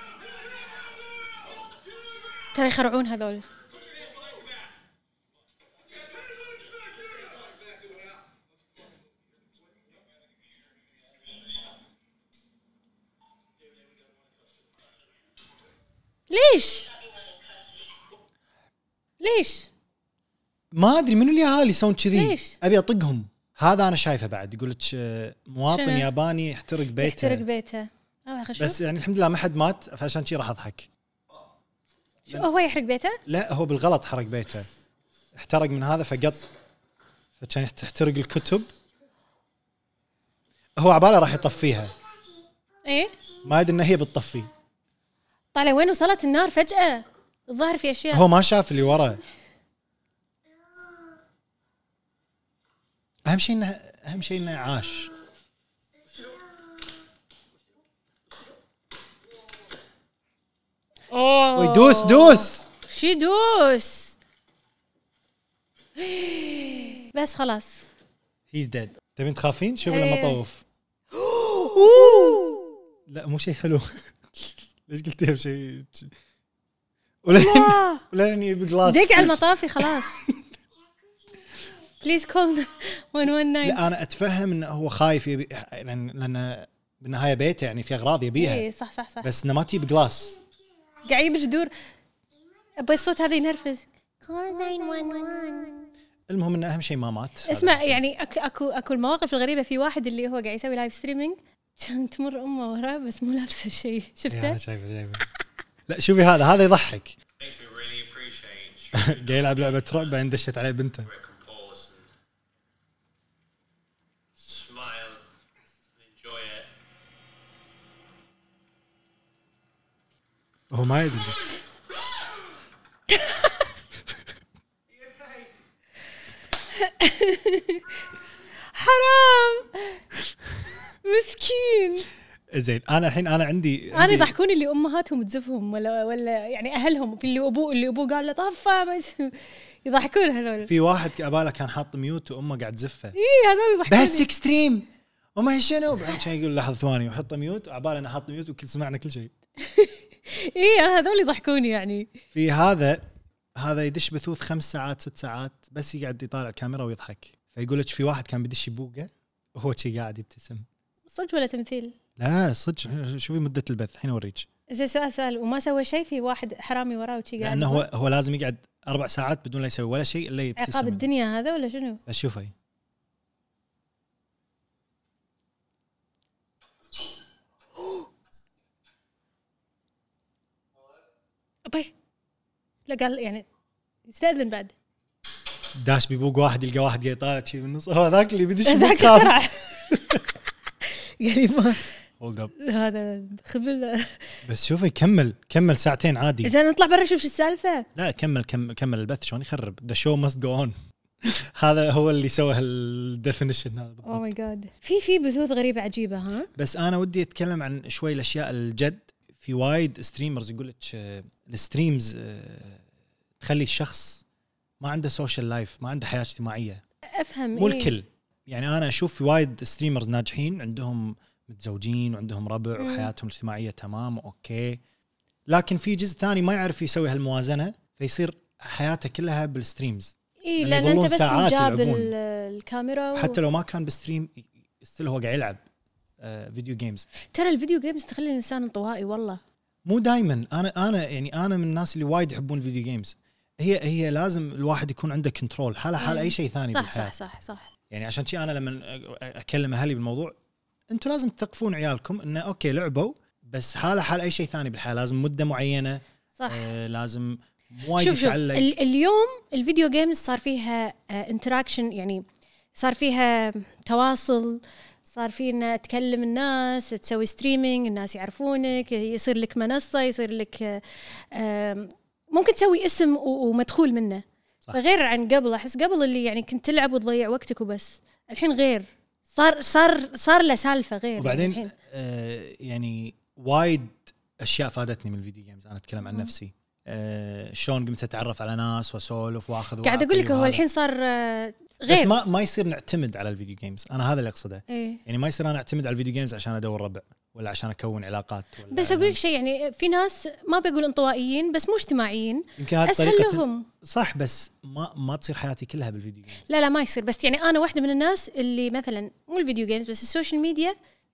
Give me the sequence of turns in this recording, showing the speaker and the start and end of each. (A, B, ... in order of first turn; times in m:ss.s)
0:02.5-0:03.5 A
0:16.3-0:16.9 A
0:19.2-0:19.7 A
0:20.7-0:27.4 B
0:22.1-0:22.6 A
0:25.7-0:26.1 A
0:27.0-0:28.8 A
0:28.6-0:30.9 B
0:32.3-0:33.2 A
0:33.3-0:34.7 B
0:35.4-0:36.5 B
0:37.4-0:38.7 B
0:40.8-0:41.9 B
0:42.9-0:43.1 A
0:43.4-0:44.5 B
0:45.5-0:48.2 A
0:48.1-0:49.2 B
0:53.2-0:55.1 B
1:01.1-1:04.2 A
1:01.6-1:02.6 B
1:06.0-1:07.9 A
1:08.5-1:10.6 B
1:09.9-1:10.4 A
1:11.1-1:12.7 A
1:11.8-1:12.4 B
1:13.1-1:16.1 B
1:17.2-1:19.4 B
1:17.3-1:18.0 A
1:18.8-1:20.2 A
1:22.0-1:23.8 A
1:23.6-1:28.6 B
1:28.4-1:29.3 A
1:29.2-1:30.4 B
1:31.0-1:31.7 A
1:32.8-1:35.9 A
1:36.3-1:38.0 B
1:37.5-1:44.6 A
1:44.3-1:45.2 B
1:45.9-1:47.2 B
1:47.4-1:50.1 C
1:48.9-1:51.1 B
1:51.0-1:52.1 C
1:54.4-1:55.2 C
1:55.9-1:56.7 C
2:00.7-2:01.4 B
2:03.2-2:03.5 A
2:06.7-2:08.0 A
2:08.7-2:10.0 A
2:11.0-2:12.1 A
2:12.5-2:14.3 B
2:13.9-2:20.7 A
2:20.6-2:23.2 B
2:23.2-2:24.3 A
2:23.9-2:29.3 B
2:29.6-2:32.1 A
2:32.3-2:40.7 B
2:41.1-2:42.0 A
2:42.2-2:44.5 B
2:44.7-2:47.9 A
2:47.4-2:51.1 B
2:50.6-2:52.0 A
2:52.1-2:52.5 B
3:01.7-3:01.9 A
3:02.9-3:03.5 A
3:04.1-3:04.7 A
3:05.8-3:10.2 B
3:08.7-3:10.2 A
3:10.9-3:11.9 A
3:12.2-3:12.5 B
3:12.6-3:14.4 A
3:14.4-3:16.5 B
3:16.4-3:17.9 A
3:18.0-3:24.3 B
3:24.0-3:26.5 A
3:26.6-3:32.8 B
3:33.4-3:34.2 B
3:34.8-3:36.8 B
3:37.2-3:37.9 A
3:37.6-3:44.8 B
3:42.8-3:43.1 A
3:45.5-3:52.1 B
3:50.4-3:53.4 A
3:53.2-3:55.6 B
3:56.2-3:57.1 B
3:57.3-3:59.4 A
3:59.9-4:07.2 B
4:06.0-4:07.7 A
4:07.9-4:10.4 B
4:10.9-4:18.8 B
4:16.4-4:16.6 A
4:18.0-4:22.2 A
4:22.8-4:41.7 A
4:41.2-4:50.6 B
4:46.1-4:46.3 A
4:49.8-4:52.2 A
4:51.9-4:59.2 B
4:54.7-4:55.0 A
4:58.7-5:03.7 A
5:02.6-5:06.4 B
5:06.5-5:10.8 A